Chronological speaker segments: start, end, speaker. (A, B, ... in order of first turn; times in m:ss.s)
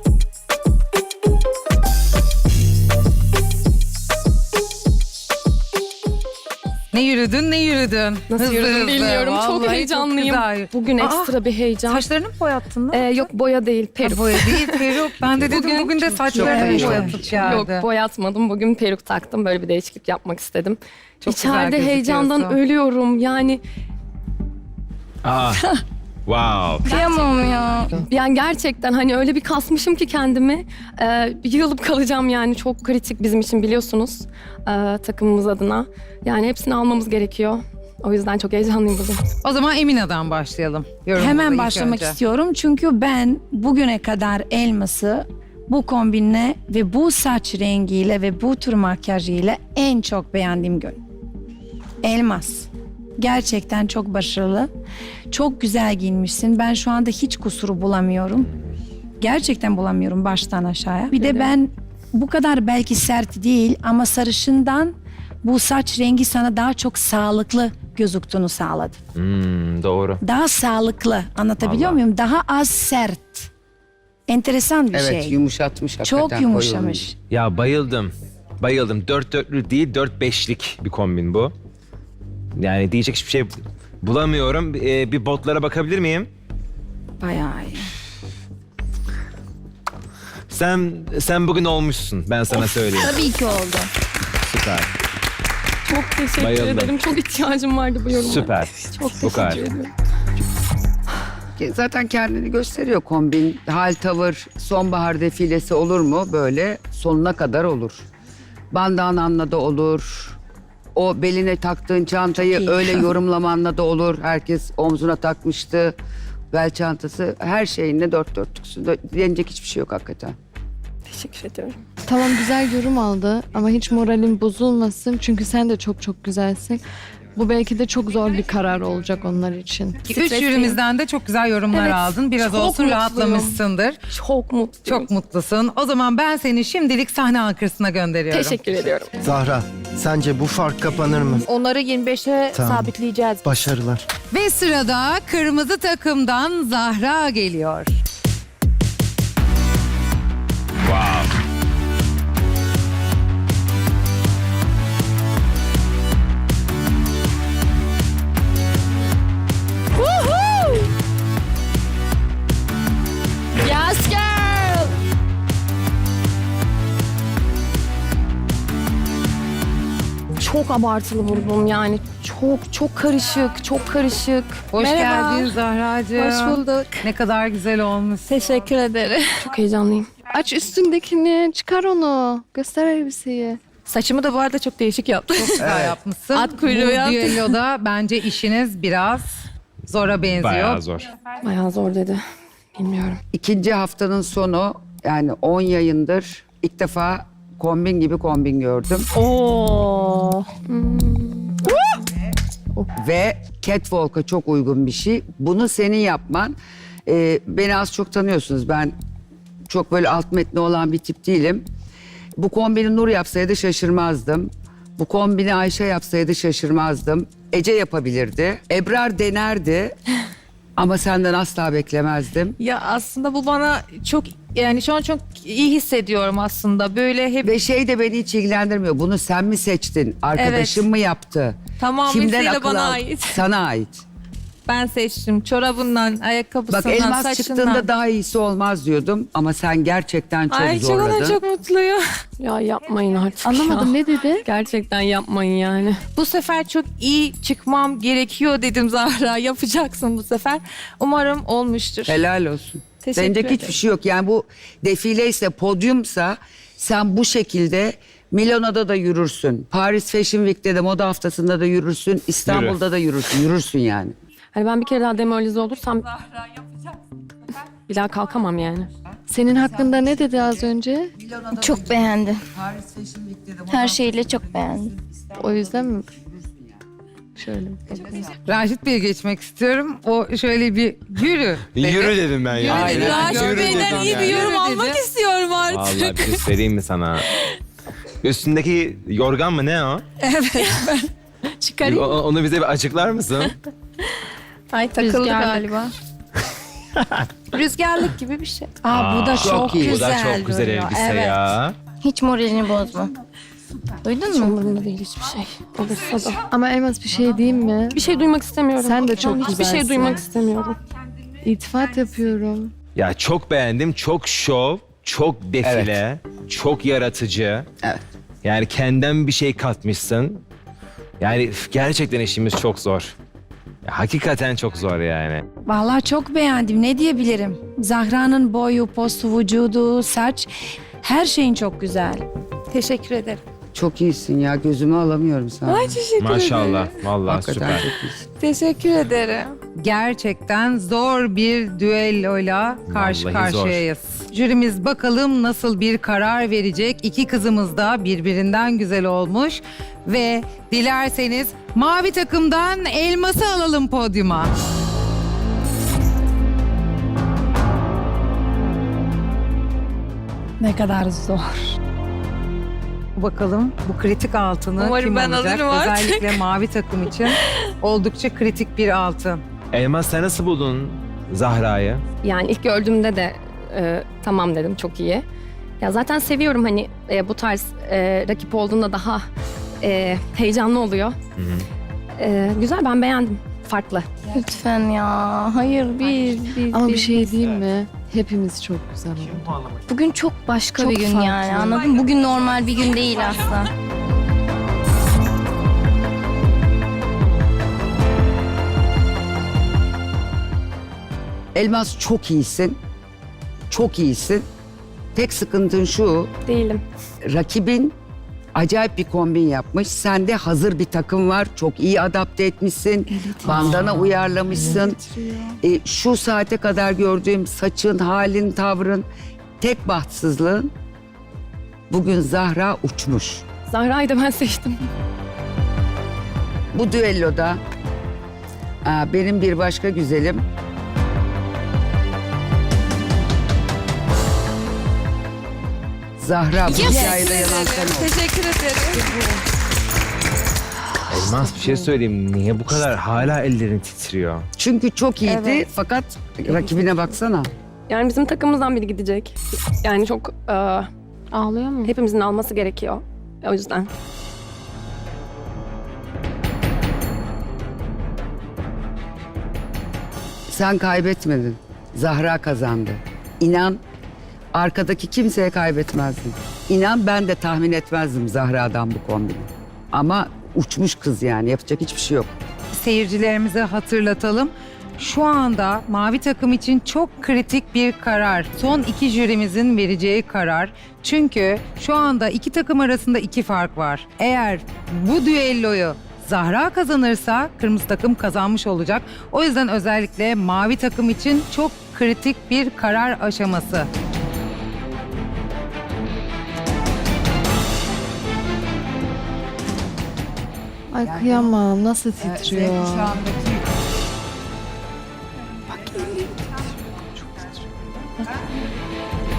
0:06.9-0:11.3 A
0:08.3-0:12.0 B
0:11.9-0:13.3 A
0:12.9-0:14.8 B
0:14.0-0:17.8 A
0:15.5-0:23.6 B
0:16.3-0:17.2 C
0:16.4-0:17.5 D
0:21.2-0:22.6 A
0:25.2-0:25.7 E
0:26.2-0:26.9 E
0:26.9-0:27.9 F
0:28.1-0:39.2 B
0:39.4-0:42.2 A
0:41.1-0:51.0 C
0:52.0-0:54.7 C
0:55.3-0:58.5 C
0:59.2-1:09.0 C
1:01.1-1:01.5 B
1:09.1-1:10.2 E
1:10.2-1:13.5 C
1:11.6-1:12.0 E
1:14.3-1:15.4 C
1:14.9-1:17.1 D
1:16.0-1:17.1 C
1:17.3-1:21.5 E
1:22.6-1:26.3 E
1:27.2-1:27.9 C
1:30.5-1:33.2 E
1:32.5-1:33.9 F
1:34.5-1:34.9 E
1:35.9-1:39.9 B
1:36.4-1:36.9 E
1:38.2-1:39.7 E
1:41.6-1:48.0 D
1:48.7-1:50.4 D
1:50.9-1:55.9 D
1:56.5-2:00.4 D
2:01.1-2:01.8 B
2:02.0-2:06.8 G
2:07.3-2:10.4 G
2:10.0-2:14.0 A
2:10.2-2:10.8 B
2:11.7-2:13.5 B
2:14.1-2:15.1 B
2:14.8-2:18.6 A
2:18.3-2:19.2 B
2:19.2-2:21.4 H
2:21.4-2:23.5 I
2:22.5-2:22.9 H
2:23.4-2:24.1 H
2:24.3-2:28.0 A
2:30.8-2:31.3 E
2:40.1-2:40.7 B
2:43.7-2:44.9 B
2:50.4-2:54.6 B
2:54.7-2:58.6 A
2:54.8-2:55.5 I
2:56.2-2:57.0 I
2:58.3-2:59.4 I
2:59.4-3:00.2 B
3:00.2-3:03.6 G
3:03.8-3:05.7 I
3:05.4-3:09.3 A
3:05.6-3:06.0 D
3:06.3-3:07.5 I
3:09.9-3:10.8 A
3:10.4-3:11.1 E
3:11.4-3:12.2 B
3:12.8-3:13.2 B
3:13.3-3:19.1 D
3:19.2-3:20.4 I
3:20.7-3:21.7 B
3:23.0-3:28.9 D
3:29.7-3:31.6 D
3:32.4-3:39.9 D
3:40.8-3:42.5 D
3:42.6-3:47.6 I
3:47.4-3:54.0 D
3:50.3-3:50.9 I
3:51.8-3:53.4 I
3:54.7-3:57.9 I
3:56.7-4:01.4 D
4:00.5-4:02.0 I
4:02.4-4:06.0 B
4:03.4-4:04.4 G
4:06.1-4:12.2 I
4:12.1-4:24.2 D
4:13.0-4:13.8 I
4:22.4-4:22.8 E
4:24.6-4:26.1 B
4:27.9-4:28.9 B
4:29.3-4:31.1 G
4:29.7-4:30.1 D
4:31.2-4:36.6 D
4:31.5-4:32.4 F
4:33.7-4:34.9 F
4:35.4-4:36.1 G
4:37.4-4:38.2 G
4:37.9-4:38.2 D
4:38.5-4:41.8 A
4:41.8-4:44.4 E
4:41.8-4:44.1 D
4:42.6-4:45.0 A
4:43.1-4:46.4 I
4:45.7-4:47.3 E
4:48.2-4:50.0 E
4:51.8-4:53.6 E
4:54.7-4:55.7 I
4:54.9-4:55.9 F
4:57.5-4:58.8 I
4:58.8-5:00.6 C
4:58.9-5:01.8 E
4:59.4-5:00.1 D
5:00.2-5:03.1 F
5:04.1-5:05.0 F
5:04.3-5:06.4 B
5:06.4-5:08.0 G
5:07.9-5:10.8 B
5:08.8-5:10.2 G
5:11.4-5:12.7 G
5:12.9-5:17.7 E
5:15.6-5:16.0 D
5:18.4-5:20.4 E
5:21.2-5:23.1 E
5:23.8-5:25.4 E
5:25.7-5:32.2 C
5:32.7-5:33.4 I
5:33.7-5:36.0 D
5:35.7-5:37.0 I
5:36.2-5:37.9 E
5:37.2-5:38.2 D
5:38.4-5:39.6 I
5:39.8-5:54.5 A
5:42.9-5:43.8 E
6:00.6-6:01.8 C
6:03.2-6:09.4 A
6:04.8-6:06.4 I
6:09.7-6:12.0 E
6:12.2-6:15.2 B
6:15.8-6:19.2 B
6:19.8-6:21.2 B
6:21.4-6:21.7 E
6:22.2-6:24.1 B
6:24.3-6:27.1 F
6:26.5-6:29.6 G
6:29.9-6:33.7 F
6:30.7-6:31.8 G
6:41.6-6:42.8 D
6:43.7-6:44.4 D
6:45.1-6:46.3 D
6:46.5-6:46.8 B
6:47.2-6:47.9 D
6:48.6-6:55.0 D
6:55.6-6:59.1 D
6:59.6-7:00.7 D
7:01.9-7:03.4 D
7:03.7-7:04.8 B
7:06.7-7:07.6 D
7:08.8-7:10.4 D
7:16.2-7:18.2 D
7:16.7-7:19.0 I
7:21.1-7:24.4 E
7:24.6-7:27.5 D
7:27.9-7:30.9 B
7:31.8-7:33.9 B
7:40.5-7:43.8 D
7:44.5-7:52.3 D
7:52.7-8:13.9 A
8:20.9-8:23.2 G
8:21.0-8:21.6 D
8:22.2-8:23.7 D